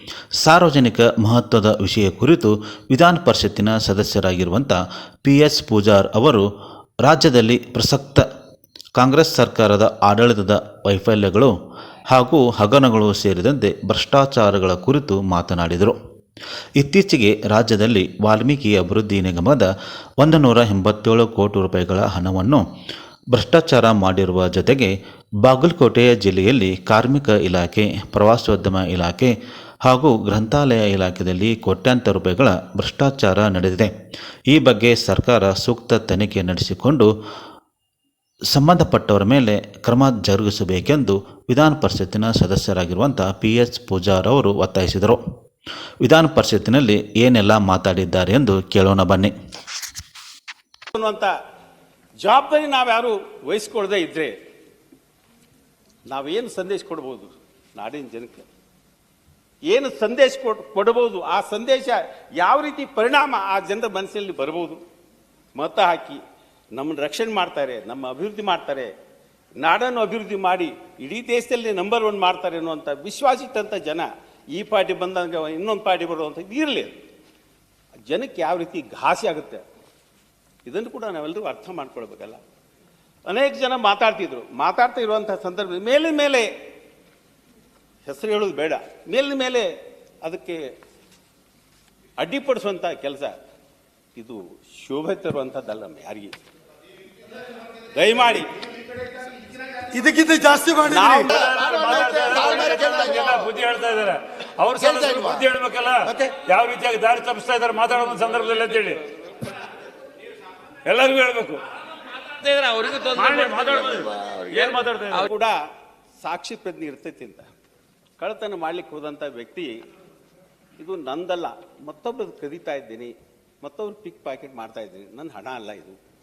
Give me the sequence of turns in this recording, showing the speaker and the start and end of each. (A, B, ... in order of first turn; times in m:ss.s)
0:00.4-0:06.5 A
0:07.0-0:08.3 A
0:09.0-0:11.5 A
0:12.1-0:16.0 A
0:16.8-0:22.6 A
0:23.3-0:33.9 A
0:34.5-0:37.1 A
0:38.5-0:45.2 A
0:46.0-0:49.3 A
0:50.9-0:51.3 B
0:52.2-0:54.3 B
0:56.1-0:58.5 B
0:59.7-1:04.8 B
1:05.6-1:06.2 B
1:06.8-1:08.9 B
1:09.6-1:17.0 B
1:18.1-1:19.6 B
1:20.6-1:22.4 B
1:23.3-1:26.5 B
1:28.0-1:29.7 B
1:30.2-1:30.6 B
1:32.2-1:33.4 B
1:34.2-1:36.4 B
1:37.9-1:38.5 B
1:39.9-1:41.1 C
1:40.8-1:41.5 B
1:41.4-1:49.0 D
1:42.0-1:43.2 C
1:50.8-1:51.6 D
1:52.4-1:55.2 D
1:53.4-1:54.2 C
1:55.1-1:55.6 B
1:56.2-1:57.5 B
1:58.2-1:59.8 B
2:00.8-2:06.0 B